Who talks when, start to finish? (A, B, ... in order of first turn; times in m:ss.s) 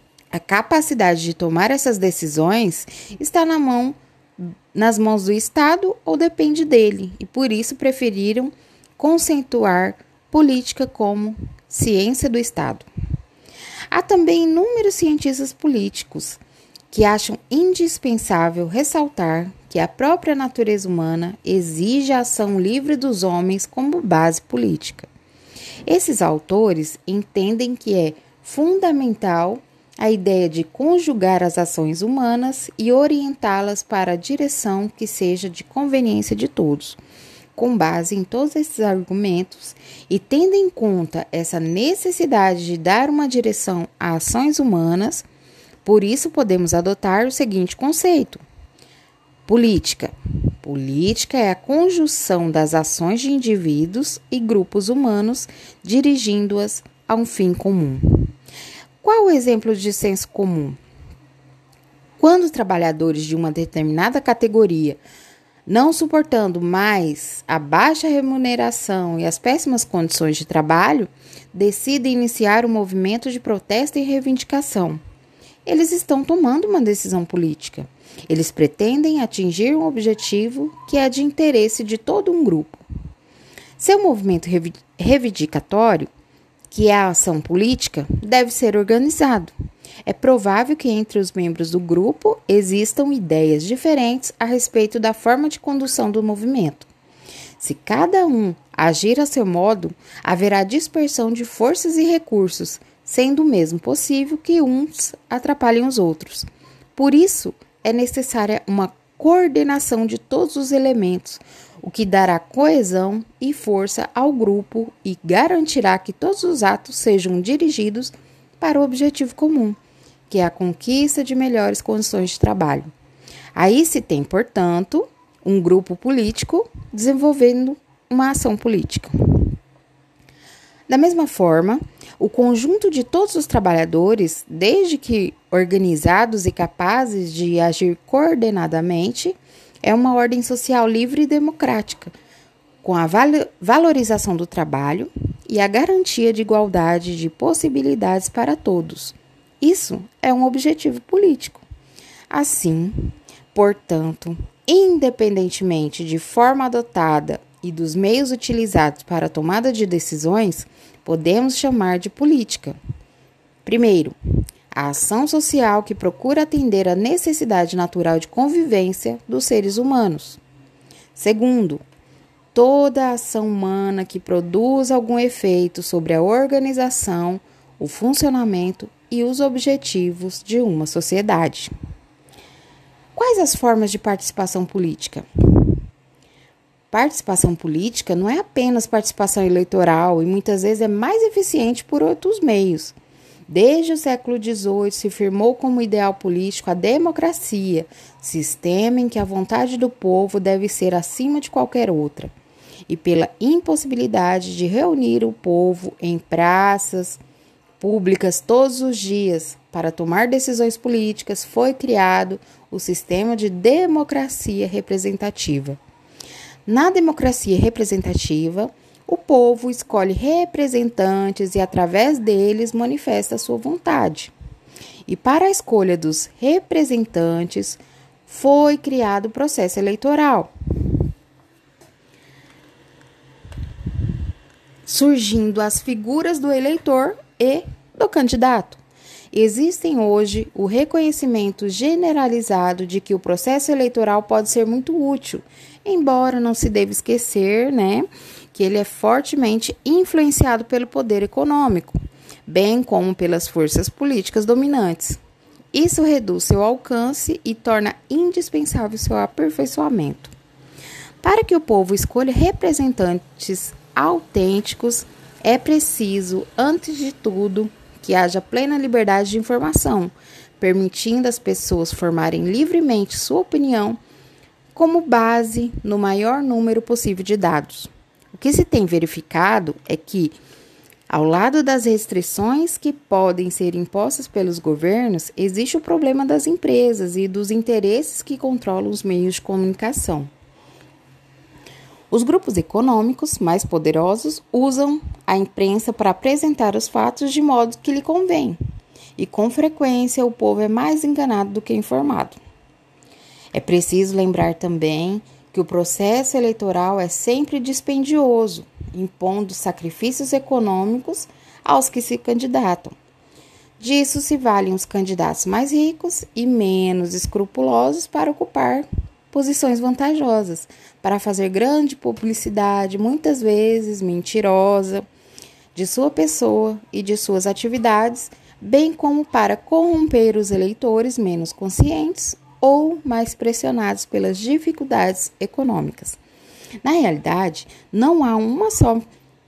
0:00.3-0:12.9 A
0:13.9-0:25.1 A
0:25.9-0:37.0 A
0:37.6-0:45.2 A
0:45.8-0:48.4 A
0:49.5-0:58.3 A
0:59.0-1:00.8 A
1:02.2-1:05.0 A
1:05.7-1:15.0 A
1:15.6-1:22.8 A
1:23.8-1:26.1 A
1:26.7-1:29.5 A
1:30.1-1:36.9 A
1:37.6-1:59.8 A
2:00.3-2:02.9 A
2:03.6-2:09.5 A
2:10.9-2:22.1 A
2:22.8-2:31.6 A
2:32.3-2:42.8 A
2:43.6-2:44.2 A
2:44.7-2:50.4 A
2:51.2-2:51.8 A
2:52.5-3:01.7 A
3:03.2-3:05.8 A
3:06.9-3:13.0 A
3:13.5-3:22.3 A
3:22.9-3:27.2 A
3:27.8-3:35.8 A
3:36.7-3:44.3 A
3:45.1-3:50.5 A
3:54.9-3:58.8 A
3:59.3-4:15.2 A
4:15.7-4:20.3 A
4:21.2-4:34.0 A
4:34.8-4:40.4 A
4:41.1-4:50.3 A
4:52.1-4:58.6 A
4:59.2-5:02.4 A
5:03.5-5:12.9 A
5:13.8-5:25.1 A
5:25.7-5:36.2 A
5:36.8-5:39.0 A